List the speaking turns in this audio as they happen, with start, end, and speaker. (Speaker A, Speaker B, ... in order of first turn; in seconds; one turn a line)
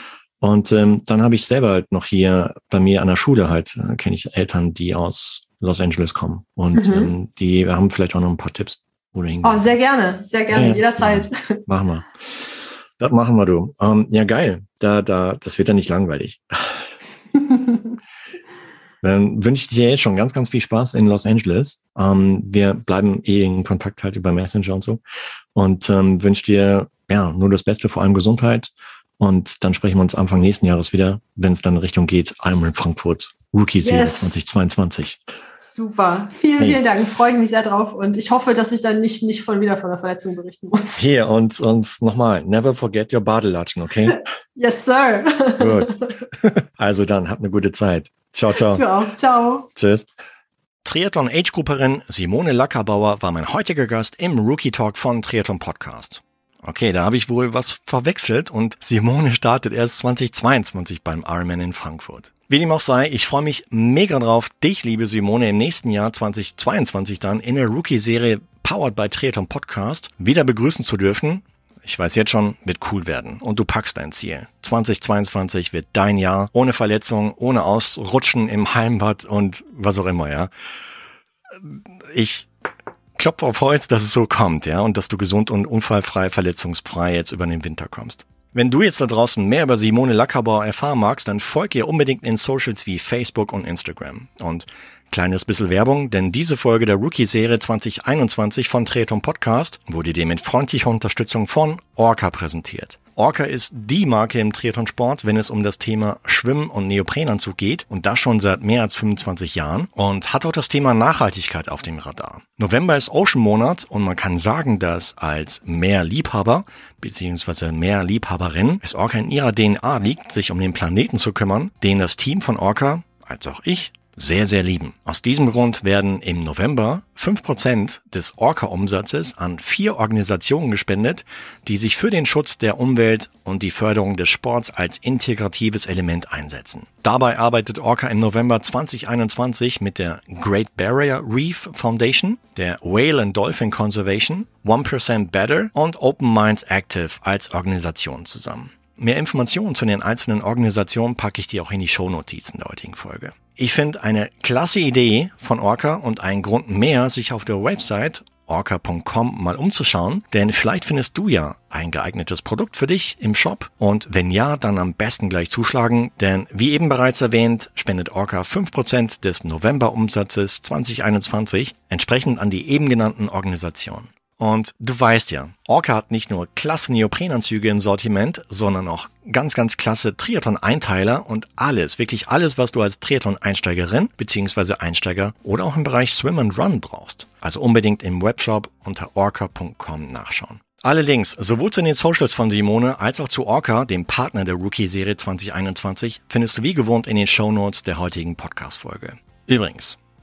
Speaker A: 0.4-9.7
Speaker B: 6.7-7.1
Speaker B: 9.4-11.6
Speaker A: 10.5-16.9
Speaker B: 17.4-17.8
Speaker A: 19.0-25.0
Speaker A: 25.6-35.2
Speaker B: 33.8-34.4
Speaker B: 35.6-41.1
Speaker A: 41.0-44.2
Speaker B: 44.1-46.2
Speaker A: 45.6-48.9
Speaker B: 48.6-49.7
Speaker A: 49.8-50.1
Speaker A: 50.8-80.5
Speaker A: 81.5-82.5
Speaker A: 83.2-200.0